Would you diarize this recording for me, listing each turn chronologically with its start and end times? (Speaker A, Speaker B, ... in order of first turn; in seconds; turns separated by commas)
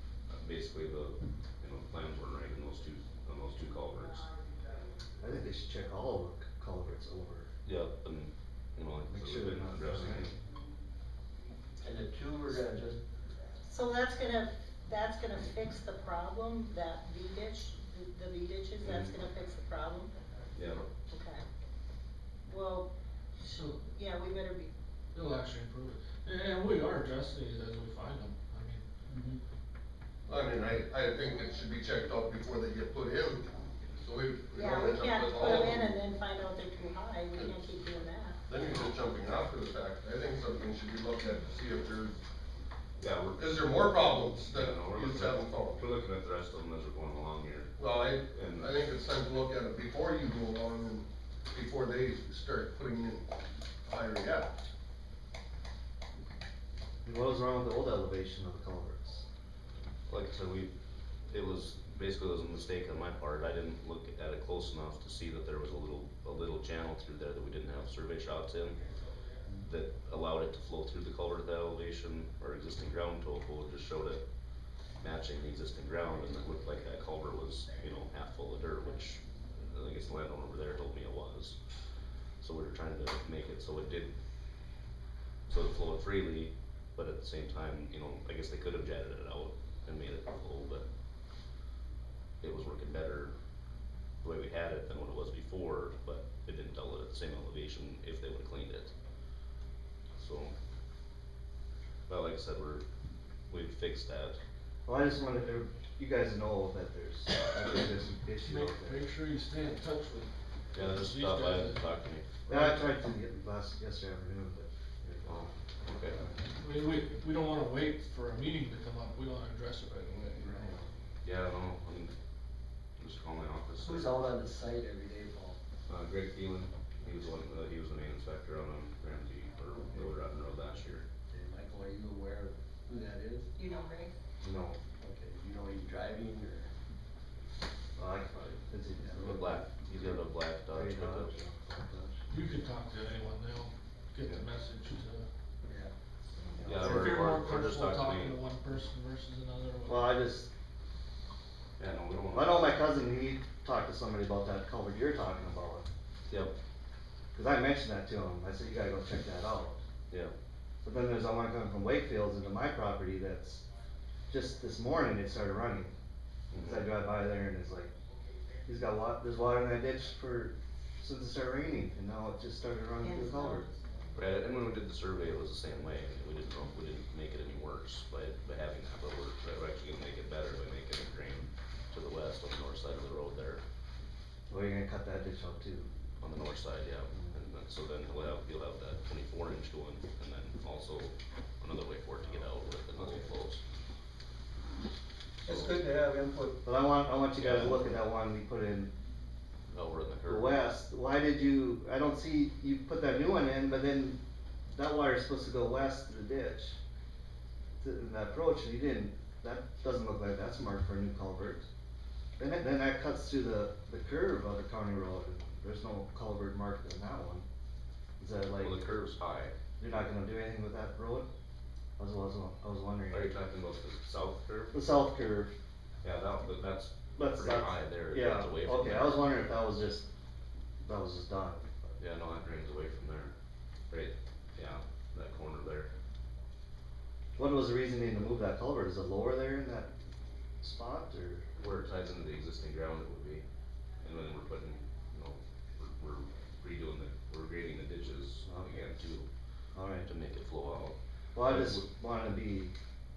Speaker A: 0.3-4.3, Speaker B: 5.2-7.5, Speaker A: 7.7-10.4, Speaker B: 9.1-10.3, Speaker C: 11.8-13.0, Speaker D: 13.7-20.1, Speaker A: 18.8-19.1, Speaker A: 20.6-20.9, Speaker D: 21.1-21.4, Speaker D: 22.5-22.9, Speaker D: 23.8-24.7, Speaker E: 25.1-28.8, Speaker C: 29.1-29.4, Speaker F: 30.3-36.0, Speaker D: 34.5-38.4, Speaker F: 37.3-37.7, Speaker F: 38.5-42.2, Speaker A: 43.0-47.7, Speaker F: 43.4-45.8, Speaker F: 47.8-54.5, Speaker A: 48.3-48.7, Speaker B: 57.0-59.2, Speaker A: 60.1-60.7, Speaker A: 61.3-68.8, Speaker A: 69.5-74.2, Speaker A: 75.0-81.6, Speaker A: 82.4-84.1, Speaker A: 85.5-90.8, Speaker A: 92.4-93.3, Speaker A: 94.2-98.9, Speaker A: 100.2-100.5, Speaker A: 102.1-102.8, Speaker A: 103.5-104.4, Speaker B: 104.9-109.1, Speaker E: 108.4-111.9, Speaker A: 110.7-112.3, Speaker B: 112.5-115.5, Speaker E: 112.5-112.8, Speaker A: 115.2-116.2, Speaker E: 116.6-120.7, Speaker C: 120.4-120.8, Speaker A: 121.2-122.1, Speaker A: 123.0-124.1, Speaker C: 123.8-125.6, Speaker A: 125.9-131.1, Speaker C: 131.3-133.5, Speaker D: 133.6-134.1, Speaker B: 134.4-134.8, Speaker C: 135.0-136.7, Speaker B: 138.0-142.2, Speaker A: 139.2-141.3, Speaker E: 142.3-145.3, Speaker C: 145.7-145.9, Speaker B: 146.5-146.8, Speaker C: 146.6-147.2, Speaker A: 146.7-148.4, Speaker E: 146.8-150.2, Speaker B: 149.9-150.5, Speaker A: 151.8-152.8, Speaker B: 152.3-155.9, Speaker A: 156.3-156.6, Speaker B: 157.3-159.8, Speaker B: 160.8-163.7, Speaker B: 164.3-165.9, Speaker A: 166.5-167.0, Speaker B: 166.6-167.9, Speaker B: 168.7-173.6, Speaker D: 173.0-173.8, Speaker A: 174.2-183.6, Speaker B: 184.5-185.9, Speaker A: 186.2-193.6, Speaker C: 195.4-196.6, Speaker A: 195.5-195.7, Speaker B: 196.6-198.9, Speaker A: 197.4-197.9, Speaker A: 199.7-200.6, Speaker B: 200.3-204.2, Speaker B: 204.7-206.8, Speaker B: 207.8-211.7, Speaker B: 212.4-217.4, Speaker B: 218.2-218.8, Speaker A: 218.6-219.6, Speaker B: 219.8-221.3, Speaker B: 222.0-223.3, Speaker A: 223.1-224.8, Speaker B: 224.7-225.5, Speaker A: 226.0-229.4, Speaker B: 227.2-230.1, Speaker B: 230.8-231.7, Speaker A: 232.0-233.3, Speaker A: 233.9-235.9, Speaker B: 237.4-239.9, Speaker B: 240.6-241.4, Speaker A: 241.6-243.4, Speaker A: 244.0-249.3, Speaker B: 248.5-248.8, Speaker B: 249.7-250.1, Speaker A: 250.0-251.8, Speaker B: 251.3-252.7